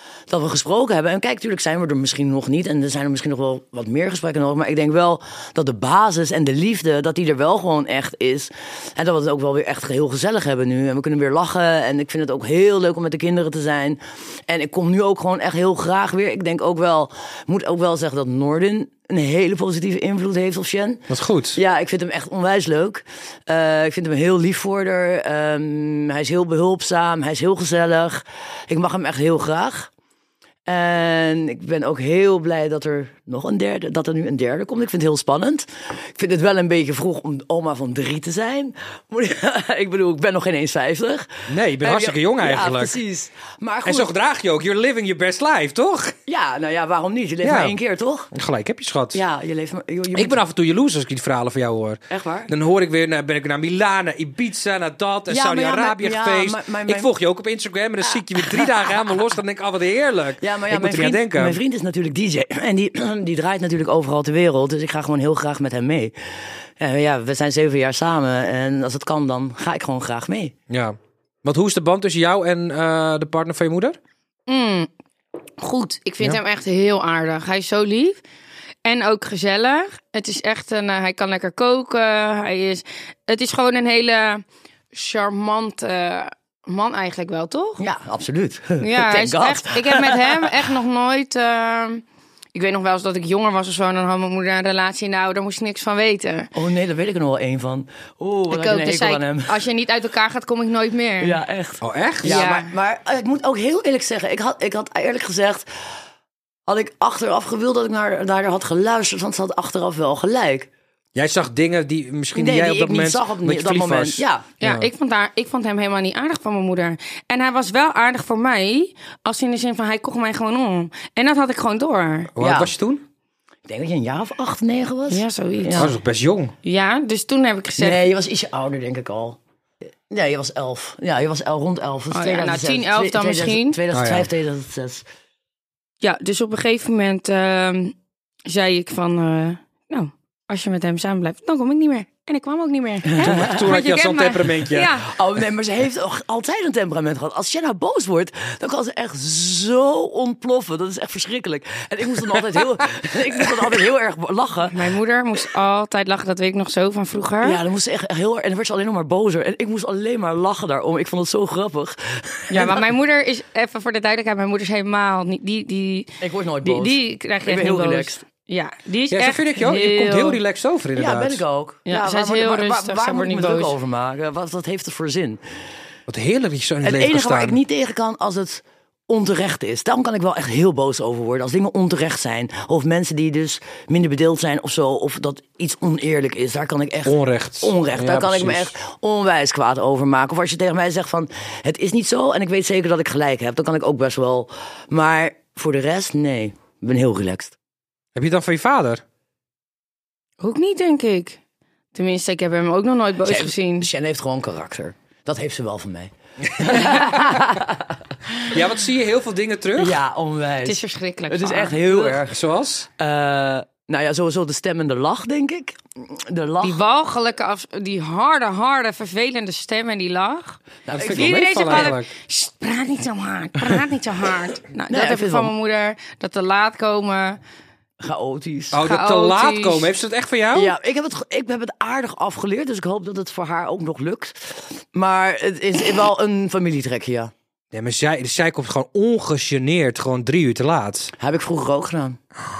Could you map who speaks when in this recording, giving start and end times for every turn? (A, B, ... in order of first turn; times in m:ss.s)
0:00.3-0:29.9 A
0:21.1-0:21.6 B
0:30.7-0:44.1 A
0:41.5-0:43.0 B
0:43.8-0:46.1 B
0:46.3-0:48.3 A
0:47.4-0:47.8 B
0:48.3-0:49.2 B
0:49.1-0:50.4 A
0:50.1-1:01.6 B
0:52.1-0:52.5 A
0:55.3-0:57.1 A
0:58.1-0:58.9 A
1:00.4-1:10.5 A
1:10.7-1:14.0 B
1:14.5-1:14.9 C
1:15.6-1:18.2 C
1:18.8-1:27.8 C
1:27.8-1:30.5 A
1:28.8-1:32.0 C
1:32.5-1:36.5 C
1:36.5-1:39.5 A
1:38.5-1:41.4 C
1:41.2-1:45.6 A
1:41.8-1:42.3 B
1:42.2-1:42.7 C
1:46.7-1:50.7 A
1:51.1-1:54.9 B
1:52.3-1:54.4 A
1:54.6-2:02.3 C
2:02.4-2:03.0 B
2:02.4-2:02.7 A
2:03.6-2:05.9 A
2:05.1-2:05.9 C
2:05.8-2:06.5 B
2:06.6-2:08.0 C
2:07.8-2:09.4 A
2:10.1-2:15.0 A
2:12.1-2:13.8 C
2:13.9-2:14.3 B
2:16.0-2:17.9 C
2:18.4-2:25.1 C
2:23.1-2:23.7 A
2:23.2-2:25.0 B
2:25.0-2:34.8 A
2:34.7-2:37.6 C
2:37.4-2:42.9 A
2:42.5-2:46.1 C
2:46.2-2:48.2 A
2:46.6-2:50.3 C
2:49.1-2:51.4 B
2:49.8-2:50.2 A
2:50.9-2:55.4 A
2:51.9-2:53.7 C
2:56.1-2:57.6 B
2:56.8-3:17.5 A
3:07.0-3:08.7 B
3:18.1-3:19.0 B
3:20.4-3:21.4 C
3:21.9-3:23.9 C
3:23.2-3:28.6 A
3:26.6-3:27.4 B
3:28.4-3:30.0 B
3:29.7-3:32.4 A
3:30.6-3:31.8 C
3:31.9-3:32.9 B
3:33.0-3:36.8 A
3:36.6-3:47.4 C
3:40.9-3:42.1 B
3:40.9-3:41.9 A
3:44.9-3:45.5 A
3:48.0-3:48.8 A
3:48.7-3:50.7 B
3:48.8-3:49.9 C
3:50.5-3:57.3 A
3:57.7-4:01.1 B
4:01.2-4:02.2 A